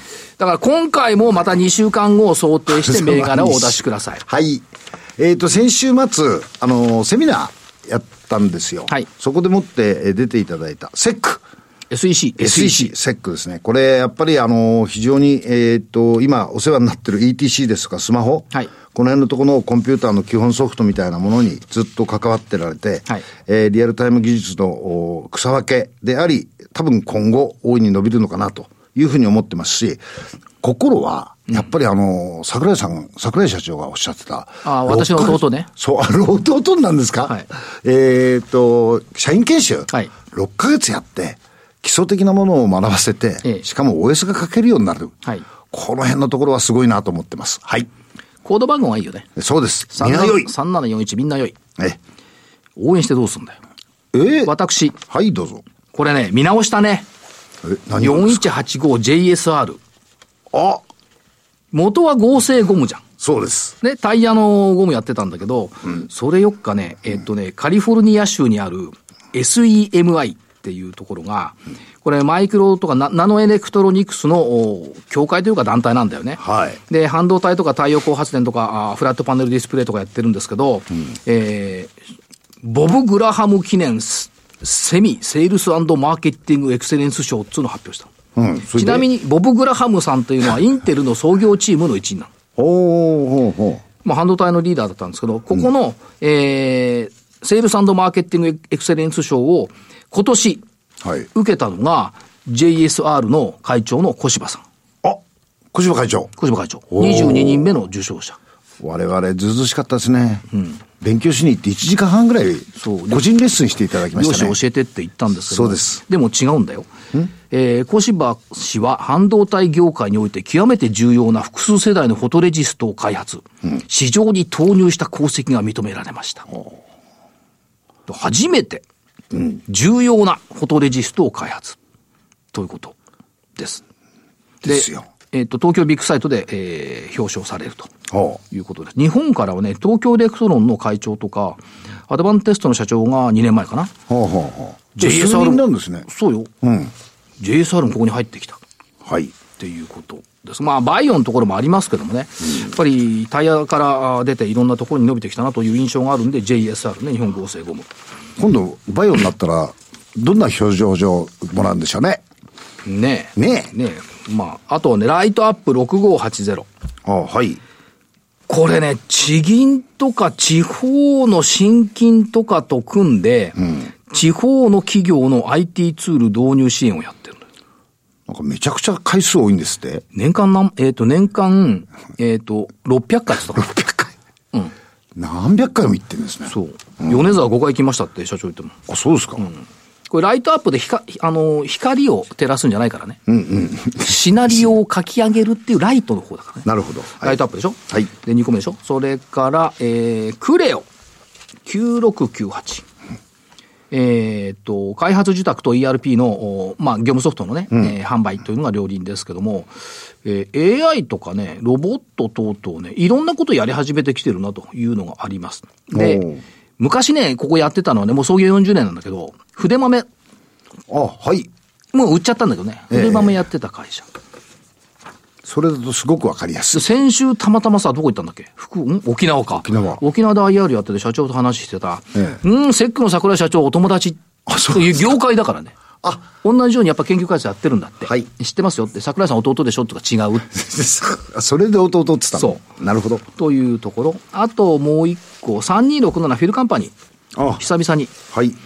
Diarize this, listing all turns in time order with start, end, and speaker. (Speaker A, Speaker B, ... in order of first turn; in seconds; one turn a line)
Speaker A: 0.4-4.2
Speaker B: 2.7-4.7
Speaker B: 5.2-11.4
Speaker A: 11.9-12.9
Speaker B: 12.4-30.0
Speaker B: 30.6-45.2
Speaker A: 34.6-35.7
Speaker B: 45.7-47.9
Speaker A: 48.4-49.3
Speaker B: 49.4-50.5
Speaker A: 49.9-51.5
Speaker A: 52.8-53.6
Speaker B: 54.1-54.5
Speaker A: 54.4-55.0
Speaker B: 55.0-55.6
Speaker A: 55.9-57.1
Speaker B: 57.6-58.4
Speaker A: 58.0-59.8
Speaker B: 60.5-60.8
Speaker A: 61.7-63.0
Speaker B: 63.2-63.8
Speaker A: 63.8-81.9
Speaker B: 76.4-76.8
Speaker A: 82.6-88.1
Speaker B: 88.3-89.0
Speaker A: 88.7-92.3
Speaker B: 92.6-93.8
Speaker A: 94.0-100.6
Speaker B: 101.0-101.3
Speaker A: 101.3-104.6
Speaker B: 105.7-106.3
Speaker A: 106.4-108.4
Speaker B: 106.9-107.7
Speaker B: 108.8-110.5
Speaker B: 111.0-114.5
Speaker A: 112.8-113.2
Speaker A: 114.1-116.9
Speaker B: 115.5-116.0
Speaker A: 117.5-126.5
Speaker A: 128.1-128.8
Speaker A: 129.5-131.8
Speaker A: 132.5-132.9
Speaker A: 133.6-133.8
Speaker B: 134.6-135.1
Speaker A: 134.6-137.9
Speaker B: 138.1-138.4
Speaker A: 138.5-143.9
Speaker B: 144.1-146.1
Speaker A: 145.0-146.5
Speaker B: 146.6-146.9
Speaker A: 147.4-148.6
Speaker B: 149.0-149.3
Speaker A: 149.6-157.9
Speaker B: 158.4-162.2
Speaker A: 162.8-166.7
Speaker B: 163.4-163.7
Speaker B: 167.0-167.6
Speaker A: 168.5-177.4
Speaker B: 178.3-180.0
Speaker A: 180.1-183.8
Speaker B: 183.6-184.1
Speaker B: 185.2-187.2
Speaker A: 186.5-188.8
Speaker B: 188.9-189.5
Speaker A: 189.4-193.2
Speaker B: 193.3-194.1
Speaker A: 194.0-196.7
Speaker B: 196.6-197.4
Speaker A: 197.2-200.8
Speaker A: 201.7-202.8
Speaker A: 203.9-209.7
Speaker A: 210.2-216.3
Speaker B: 215.9-216.4
Speaker A: 216.8-220.1
Speaker B: 220.9-221.5
Speaker A: 221.9-224.1
Speaker B: 222.9-223.4
Speaker B: 225.4-226.8
Speaker A: 226.7-235.8
Speaker B: 229.6-230.0
Speaker B: 234.5-235.1
Speaker A: 236.4-240.5
Speaker B: 240.5-243.2
Speaker A: 243.3-246.9
Speaker B: 247.3-247.6
Speaker A: 247.6-248.1
Speaker B: 248.3-248.6